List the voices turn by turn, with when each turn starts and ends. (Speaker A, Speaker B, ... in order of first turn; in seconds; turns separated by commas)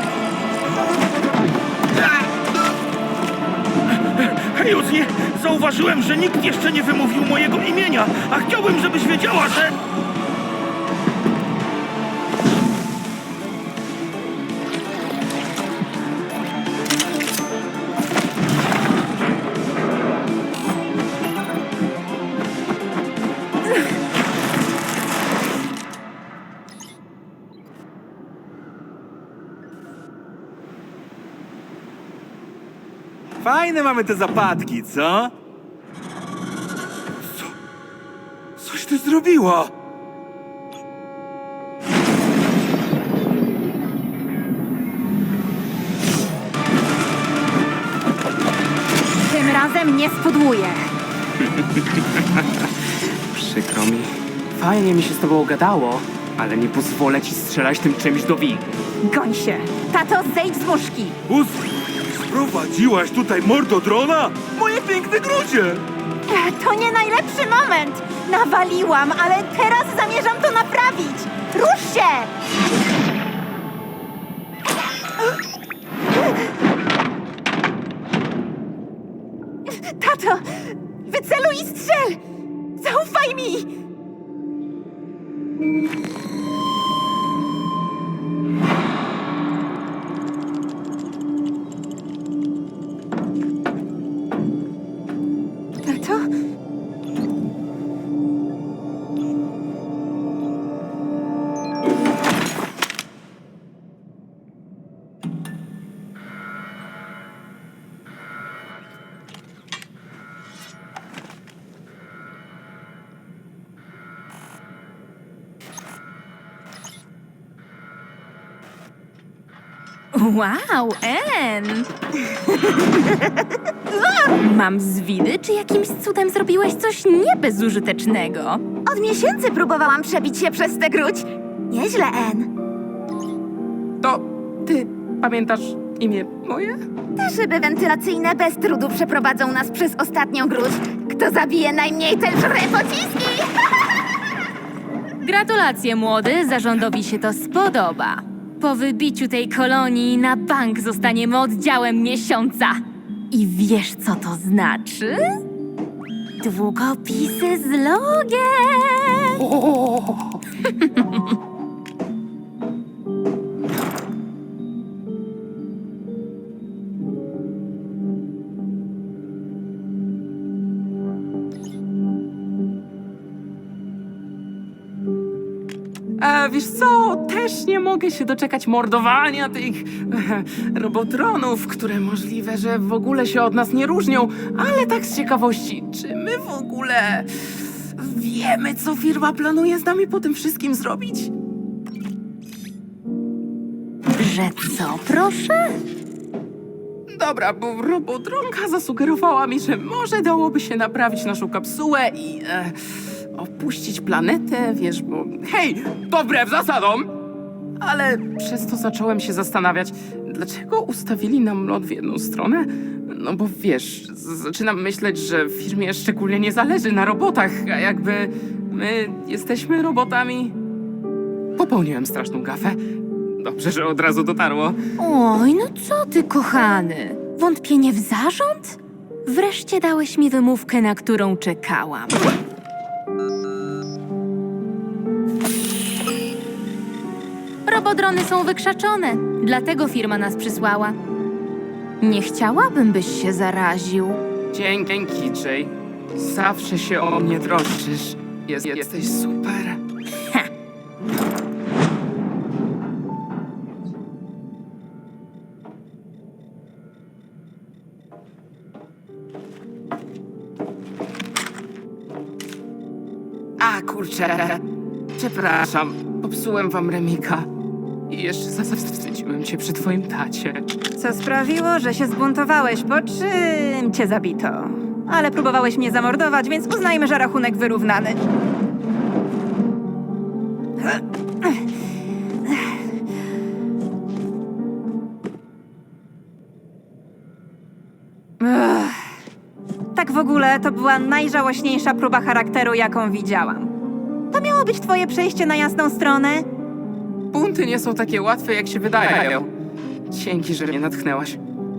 Speaker A: 3.9-9.8, Speaker B: 33.4-35.3, Speaker B: 37.2-37.5, Speaker B: 38.6-39.7, Speaker C: 49.3-50.8, Speaker D: 51.4-58.8, Speaker C: 59.1-61.2, Speaker B: 61.3-65.8, Speaker C: 66.3-72.3, Speaker C: 79.7-82.2, Speaker C: 82.8-83.7, Speaker C: 95.8-96.2, Speaker E: 120.1-121.9, Speaker F: 123.9-124.3, Speaker E: 124.4-128.6, Speaker F: 128.8-132.5, Speaker D: 134.0-136.8, Speaker F: 137.2-143.5, Speaker E: 145.2-152.8, Speaker E: 153.3-155.4, Speaker E: 156.4-159.4, Speaker D: 159.4-160.3, Speaker E: 160.8-161.2, Speaker D: 176.2-191.3, Speaker E: 194.2-195.8, Speaker D: 197.1-207.1, Speaker D: 207.8-220.6, Speaker D: 221.6-222.8, Speaker D: 223.4-224.8, Speaker E: 225.0-232.2, Speaker E: 237.7-241.0, Speaker E: 242.0-244.2, Speaker D: 244.5-249.8, Speaker D: 263.6-264.6, Speaker D: 265.2-267.5, Speaker D: 268.1-270.6, Speaker C: 271.0-278.2, Speaker C: 280.8-281.6, Speaker C: 288.4-289.0, Speaker C: 289.9-293.7, Speaker C: 294.3-296.5, Speaker D: 297.3-299.5, Speaker D: 300.1-301.4